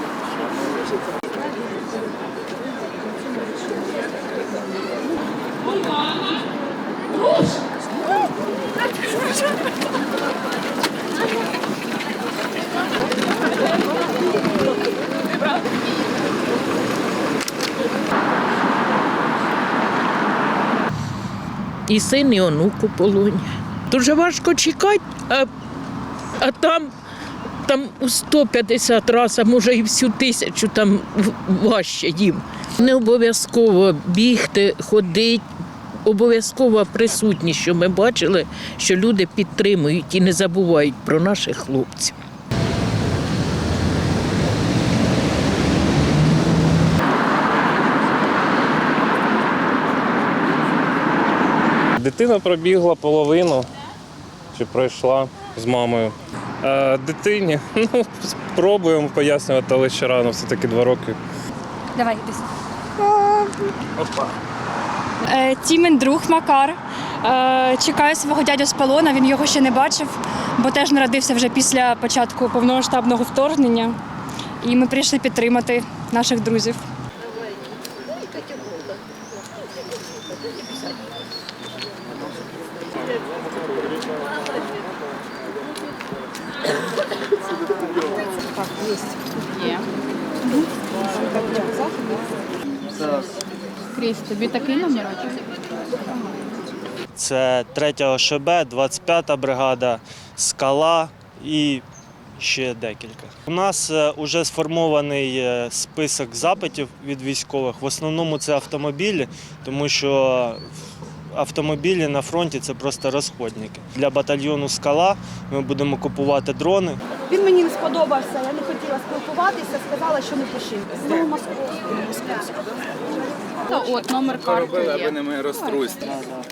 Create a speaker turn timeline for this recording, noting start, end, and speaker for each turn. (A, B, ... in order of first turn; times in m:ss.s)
0:21.9-0:25.5 A
0:26.4-0:26.9 A
0:27.6-0:35.5 A
0:36.0-0:42.2 A
0:52.0-0:53.7 B
0:54.6-1:01.2 B
1:02.0-1:02.5 C
1:03.0-1:03.7 C
1:05.2-1:14.0 C
1:14.6-1:16.8 C
1:28.5-1:29.9 D
1:30.5-1:32.2 E
1:33.9-1:35.4 D
1:36.1-1:36.4 D
1:37.2-1:41.8 F
1:42.4-1:50.7 F
1:51.3-1:57.0 F
1:57.3-2:02.6 E
2:03.7-2:06.1 D